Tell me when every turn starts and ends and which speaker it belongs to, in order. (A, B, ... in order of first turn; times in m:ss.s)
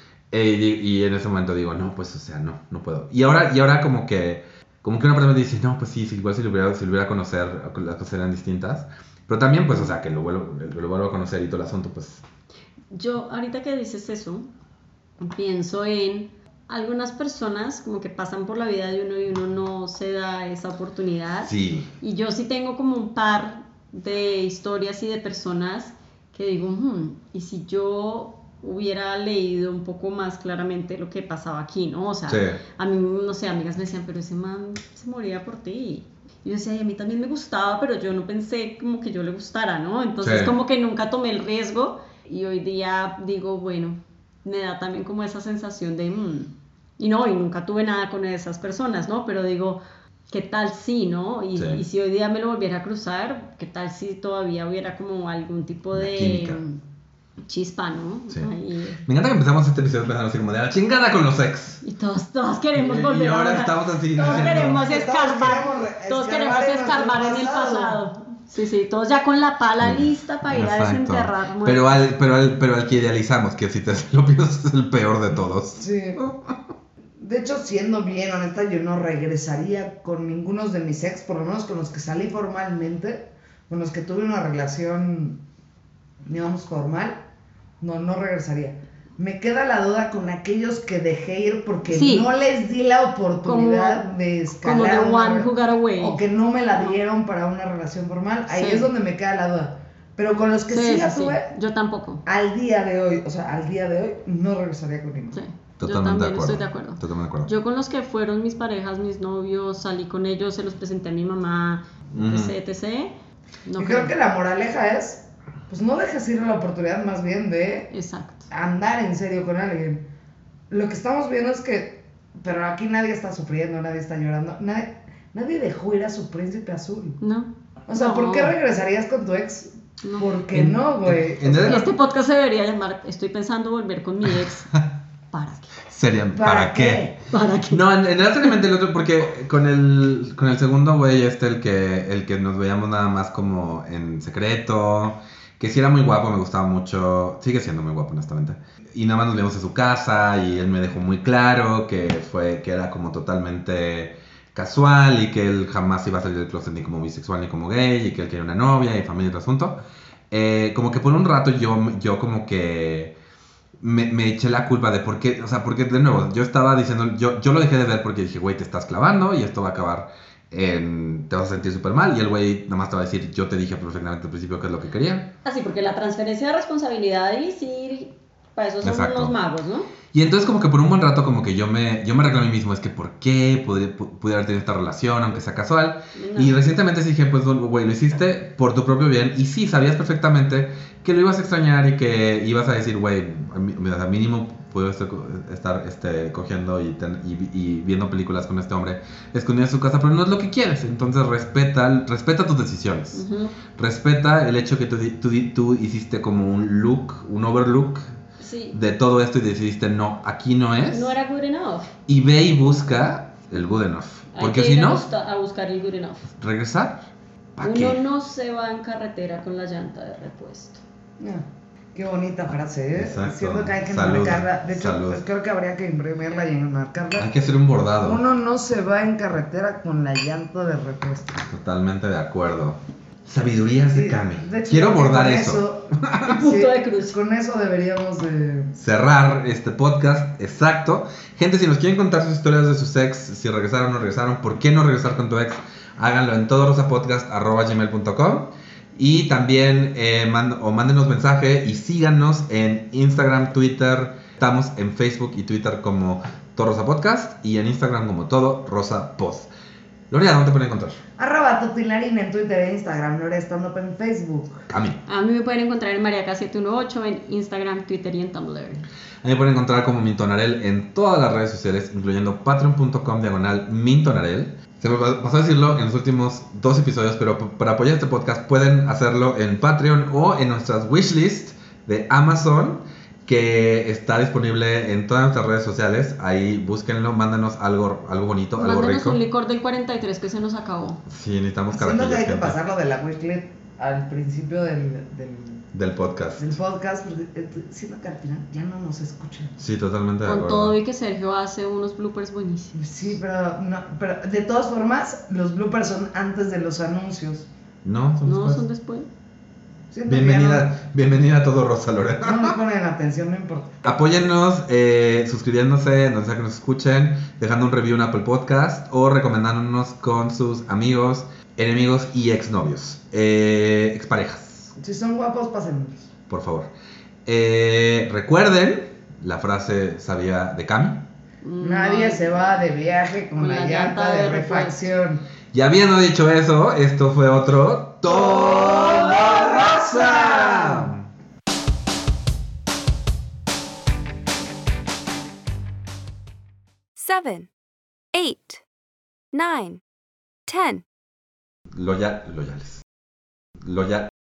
0:00.3-0:12.2 A
0:12.9-0:14.5 B
0:15.2-0:56.8 B
0:21.4-0:21.9 A
0:32.3-0:32.6 A
0:40.2-0:40.5 A
0:51.6-0:51.8 A
0:55.9-0:56.6 A
0:57.5-0:59.0 B
0:59.0-1:01.8 A
1:01.8-1:12.0 B
1:02.7-1:04.8 A
1:04.2-1:08.0 C
1:09.8-1:16.6 A
1:15.8-1:16.2 C
1:17.2-1:25.4 C
1:26.3-1:27.2 C
1:27.8-1:41.5 C
1:31.9-1:32.3 B
1:33.4-1:34.0 B
1:34.6-1:36.2 B
1:38.5-1:38.9 B
1:40.7-1:42.2 B
1:42.2-1:45.4 C
1:45.3-1:53.1 B
1:45.8-1:47.5 A
1:52.1-1:52.5 A
1:53.6-1:54.1 B
1:53.8-1:57.9 C
1:57.9-1:58.5 B
1:58.5-2:00.0 C
2:00.7-2:07.2 C
2:07.2-2:08.5 B
2:07.9-2:11.9 C
2:10.0-2:10.8 B
2:11.0-2:11.8 A
2:11.5-2:14.7 B
2:15.3-2:15.7 B
2:15.8-2:17.1 A
2:16.3-2:17.2 C
2:17.3-2:17.8 B
2:17.7-2:39.8 A
2:40.3-2:43.1 A
2:43.8-2:55.3 A
2:55.4-2:59.9 B
2:58.8-2:59.4 A
3:00.1-3:28.1 A
3:06.1-3:06.6 B
3:23.1-3:23.5 B
3:28.4-3:28.8 B
3:28.7-3:31.1 A
3:30.9-3:31.9 B
3:32.1-3:35.1 A
3:34.3-3:36.3 B
3:36.4-3:38.0 A
3:37.6-3:40.8 B
3:41.2-3:47.3 C
3:42.9-3:45.2 A
3:47.2-3:48.2 A
3:48.0-3:51.4 C
3:51.5-3:56.2 A
3:53.9-3:58.8 C
3:56.2-3:57.2 B
3:58.8-4:19.5 A
4:20.1-4:21.0 A
4:21.2-4:24.6 C
4:24.7-4:25.0 A
4:25.0-4:28.8 B
4:29.2-4:49.2 A
4:48.6-4:51.0 B
4:51.1-4:52.6 A
4:51.7-4:55.6 C
4:55.7-4:56.6 A
4:56.4-4:59.6 C
4:59.6-5:00.8 A
5:00.2-5:02.8 B
5:02.7-5:07.5 C
5:07.8-5:08.6 A
5:08.2-5:09.1 B
5:09.9-5:10.7 C
5:10.1-5:12.6 A
5:12.2-5:13.8 C
5:13.8-5:24.7 A
5:24.8-5:26.1 C
5:26.3-5:26.7 A
5:27.2-5:31.1 A
5:31.4-5:32.4 B
5:31.6-5:35.2 C
5:33.4-5:34.9 B
5:35.5-5:41.0 A
5:38.2-5:40.9 C
5:47.0-5:47.5 B
5:48.1-5:48.6 B
5:49.3-5:49.8 B
5:50.5-5:50.8 B
5:51.7-5:52.8 A
5:53.6-5:54.1 A